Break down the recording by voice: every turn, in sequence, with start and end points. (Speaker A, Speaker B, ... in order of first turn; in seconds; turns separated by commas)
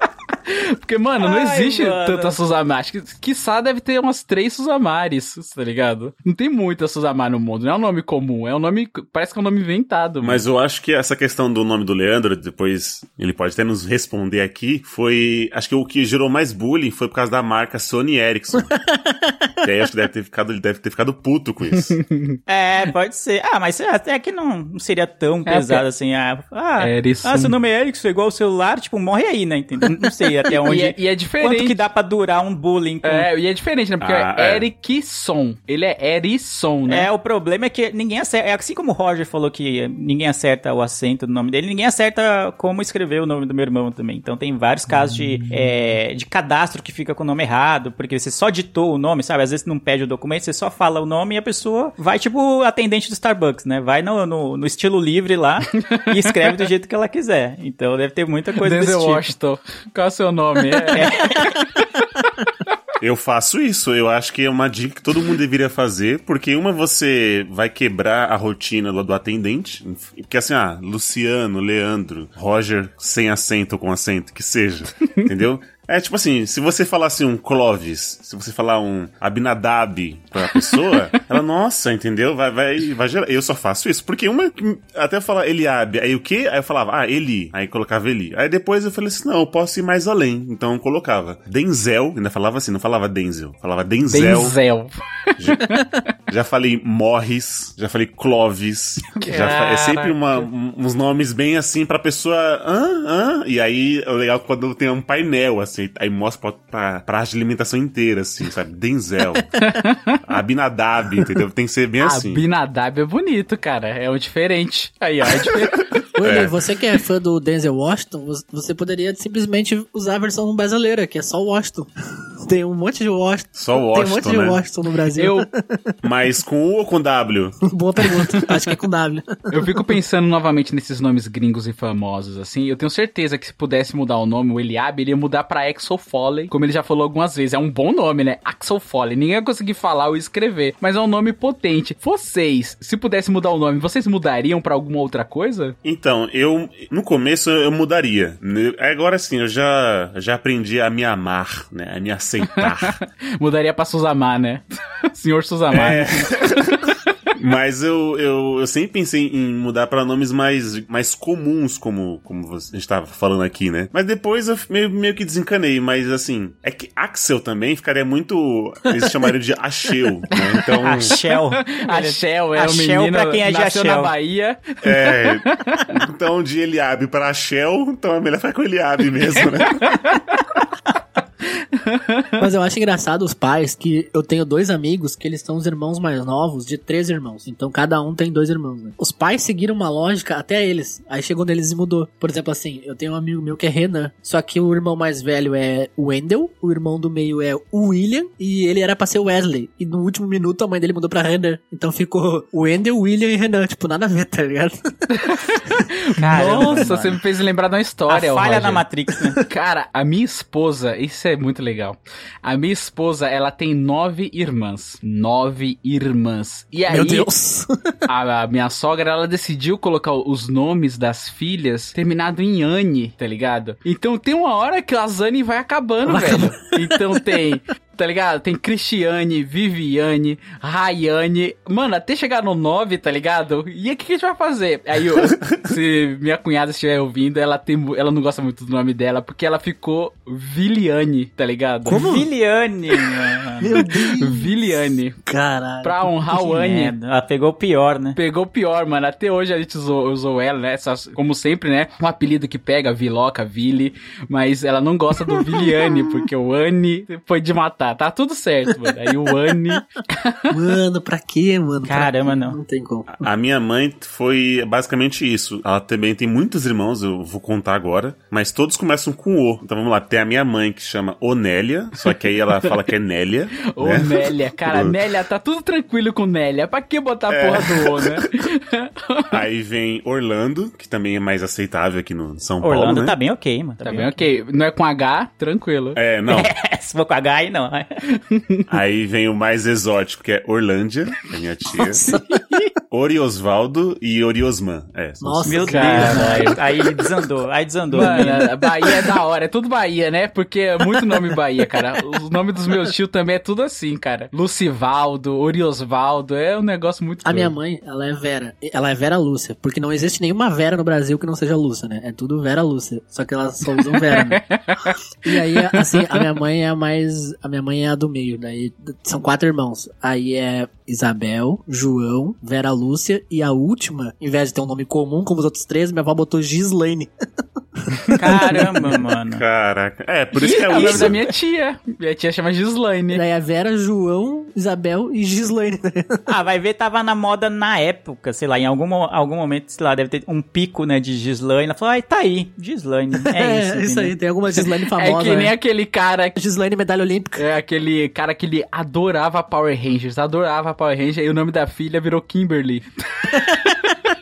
Speaker A: 0.5-10.4, Speaker B: 1.2-2.4, Speaker C: 10.2-18.7, Speaker D: 18.6-19.5, Speaker C: 19.6-22.0, Speaker A: 22.1-22.4, Speaker B: 22.5-33.3, Speaker A: 25.5-25.8, Speaker A: 26.8-27.6, Speaker A: 30.6-31.8, Speaker A: 33.0-37.1, Speaker C: 34.0-34.7, Speaker B: 36.9-59.3, Speaker A: 55.9-56.3, Speaker A: 58.6-61.0, Speaker B: 60.9-61.6, Speaker C: 63.0-94.6, Speaker A: 94.1-94.9, Speaker C: 95.4-95.7, Speaker C: 96.3-109.5, Speaker A: 99.2-100.5, Speaker A: 109.6-110.2, Speaker C: 110.2-112.4, Speaker A: 112.0-115.9, Speaker D: 116.2-121.9, Speaker C: 116.2-116.5, Speaker D: 122.4-125.9, Speaker C: 123.5-124.6, Speaker A: 125.2-125.5, Speaker C: 126.0-127.6, Speaker D: 127.7-129.8, Speaker A: 129.5-145.8, Speaker C: 145.8-153.0, Speaker A: 153.4-156.3, Speaker C: 155.7-171.2, Speaker B: 170.8-174.1, Speaker A: 171.2-175.9, Speaker C: 174.8-180.0, Speaker A: 179.9-180.3, Speaker A: 181.8-182.3, Speaker D: 182.4-204.8, Speaker A: 205.2-208.8, Speaker B: 206.2-207.2, Speaker B: 208.1-209.4, Speaker A: 209.5-217.3, Speaker D: 216.9-217.7, Speaker A: 218.1-242.0, Speaker D: 226.1-227.1, Speaker D: 241.8-242.3, Speaker B: 241.9-243.9, Speaker D: 243.6-246.6, Speaker A: 244.2-245.2, Speaker A: 245.8-246.9, Speaker B: 246.5-248.2, Speaker A: 248.2-260.5, Speaker D: 255.3-256.1, Speaker D: 258.7-259.8, Speaker D: 260.5-263.1, Speaker B: 261.8-262.6, Speaker C: 263.1-274.9, Speaker A: 273.8-279.3, Speaker C: 277.3-278.2, Speaker C: 279.3-283.1, Speaker B: 282.6-284.1, Speaker A: 283.8-286.0, Speaker C: 285.9-286.5, Speaker B: 286.3-288.0, Speaker A: 288.3-288.6, Speaker C: 288.7-292.1, Speaker D: 291.8-292.6, Speaker C: 292.9-295.6, Speaker D: 295.2-297.1, Speaker B: 295.4-298.4, Speaker A: 295.7-296.6, Speaker D: 297.9-299.1, Speaker A: 297.9-307.5, Speaker D: 300.9-301.4, Speaker D: 307.2-327.1, Speaker A: 313.9-316.2, Speaker D: 327.8-328.9, Speaker A: 328.1-328.6, Speaker B: 328.2-329.4, Speaker C: 329.4-331.2, Speaker A: 330.4-333.2, Speaker B: 330.5-331.3, Speaker D: 333.1-336.3, Speaker B: 336.3-344.1, Speaker D: 343.3-345.6, Speaker A: 345.0-346.4, Speaker D: 346.4-347.4, Speaker A: 347.4-353.9, Speaker D: 353.3-353.6